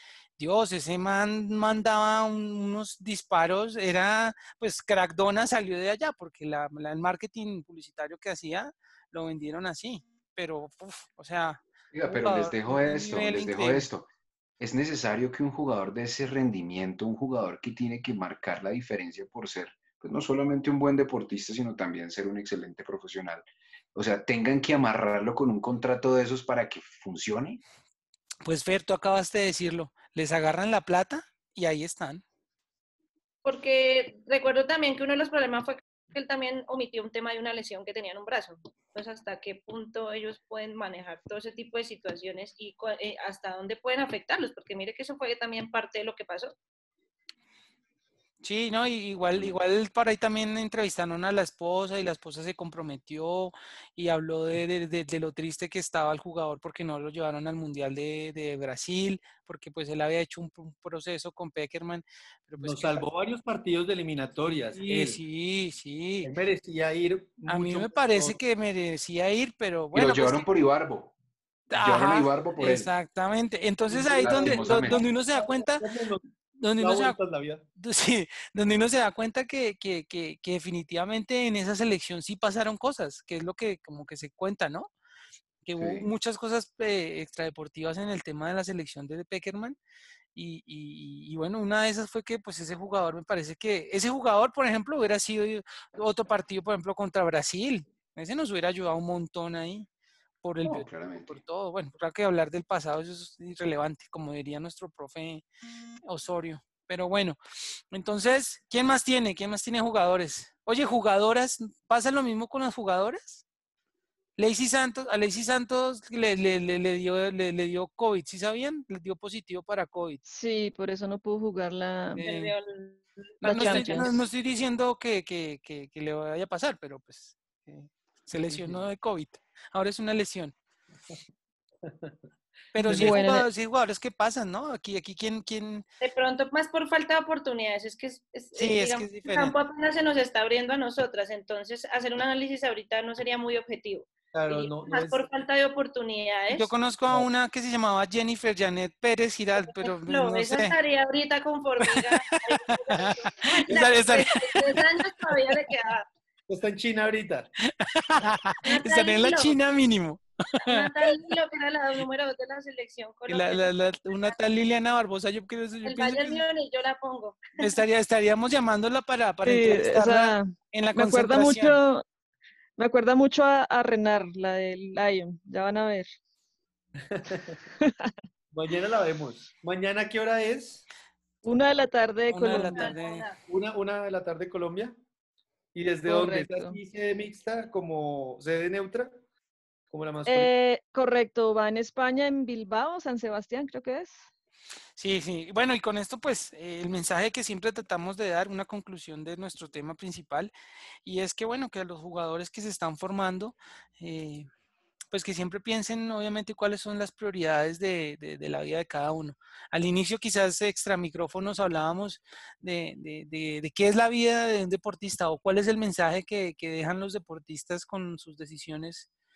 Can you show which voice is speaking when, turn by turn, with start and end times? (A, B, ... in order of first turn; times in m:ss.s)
0:00.4-0:13.9 A
0:11.9-0:14.1 B
0:14.6-0:27.6 B
0:28.4-0:32.2 A
0:33.4-0:46.6 C
0:48.4-1:03.1 A
1:02.6-1:05.2 D
1:04.8-1:06.3 A
1:06.2-1:08.4 D
1:07.5-1:10.5 A
1:09.9-1:11.1 B
1:11.7-1:15.9 A
1:11.7-1:12.9 B
1:13.9-1:17.6 D
1:14.2-1:15.0 B
1:16.6-1:17.2 A
1:17.8-1:24.9 A
1:25.6-1:29.8 A
1:25.8-1:26.1 B
1:30.4-1:39.9 A
1:40.4-1:45.4 A
1:40.6-1:41.4 B
1:46.1-1:47.4 A
1:47.9-1:53.4 A
1:54.4-2:00.2 A
2:00.3-2:02.2 E
2:02.2-2:02.5 A
2:02.2-2:04.1 C
2:03.4-2:10.5 A
2:03.4-2:04.1 E
2:08.5-2:08.9 D
2:11.8-2:12.2 D
2:12.7-2:15.8 A
2:12.8-2:13.2 D
2:12.9-2:13.5 E
2:16.0-2:26.7 C
2:18.6-2:19.6 A
2:24.3-2:25.3 D
2:26.5-2:30.8 A
2:29.6-2:36.1 C
2:31.8-2:34.8 A
2:36.5-2:37.5 D
2:37.6-2:41.1 A
2:38.6-2:39.6 C
2:40.6-2:44.4 C
2:43.3-2:46.4 A
2:45.8-2:47.8 C
2:47.6-2:51.8 A
2:49.4-2:52.0 E
2:52.8-2:56.1 E
2:57.0-2:57.6 D
2:57.8-2:58.1 E
2:58.5-3:00.8 D
3:01.4-3:02.9 E
3:02.3-3:03.3 A
3:02.8-3:03.4 C
3:03.5-3:05.0 D
3:05.7-3:09.1 D
3:06.1-3:06.8 E
3:09.9-3:10.5 D
3:10.3-3:14.2 E
3:15.0-3:20.5 A
3:21.0-3:24.5 A
3:25.1-3:39.1 A